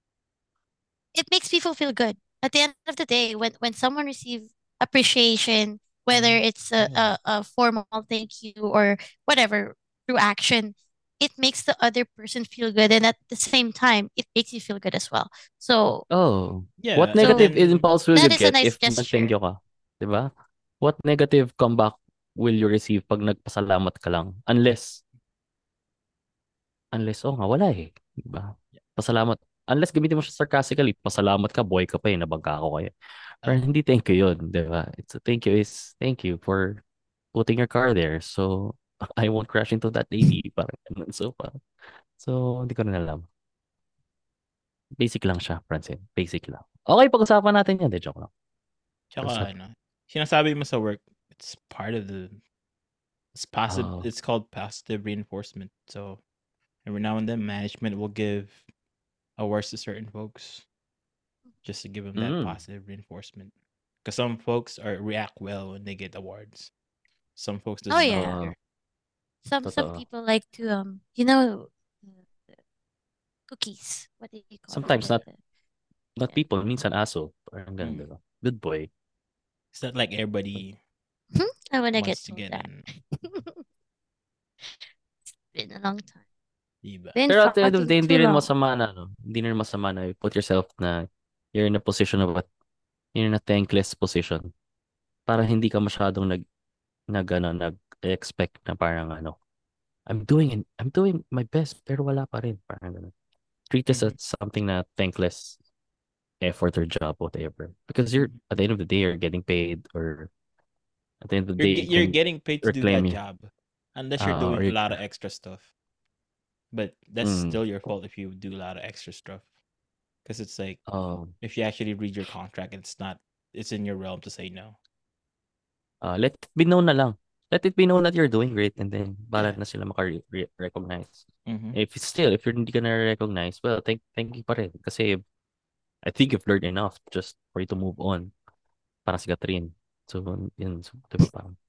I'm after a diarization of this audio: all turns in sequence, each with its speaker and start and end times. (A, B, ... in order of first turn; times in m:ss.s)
0:01.2-0:16.0 A
0:06.1-0:07.1 B
0:16.1-0:25.0 C
0:16.8-0:17.9 B
0:17.2-0:17.5 A
0:18.1-0:19.3 A
0:26.9-0:32.9 C
0:33.4-0:36.8 C
0:37.3-0:41.6 C
0:42.2-0:43.3 C
0:45.0-0:48.3 C
0:49.1-0:52.4 B
0:49.2-0:49.5 C
0:53.4-0:56.2 B
0:53.7-0:54.1 C
0:56.8-0:58.6 B
0:59.4-1:00.7 B
1:01.6-1:03.5 B
1:02.2-1:02.6 C
1:04.0-1:06.7 B
1:07.4-1:08.4 B
1:07.9-1:08.5 A
1:08.1-1:08.5 C
1:09.4-1:12.6 A
1:09.6-1:10.0 C
1:13.5-1:15.4 A
1:14.7-1:15.2 C
1:16.2-1:18.9 C
1:17.8-1:18.1 B
1:19.7-1:20.8 B
1:21.3-1:22.7 A
1:21.9-1:22.9 B
1:23.2-1:23.6 A
1:25.3-1:26.2 A
1:26.8-1:27.2 B
1:27.2-1:28.5 A
1:27.3-1:32.5 C
1:33.2-1:34.5 C
1:35.3-1:36.4 C
1:37.1-1:39.4 C
1:40.1-1:43.1 C
1:43.7-1:45.6 C
1:46.4-1:50.3 C
1:51.2-1:53.2 C
1:51.6-1:55.7 B
1:54.2-1:55.0 C
1:56.7-1:59.4 B
1:57.2-1:57.6 C
2:00.2-2:00.8 B
2:00.9-2:01.3 C
2:01.4-2:04.8 B
2:06.0-2:15.2 C
2:11.5-2:11.8 B
2:16.0-2:18.3 C
2:19.1-2:21.6 C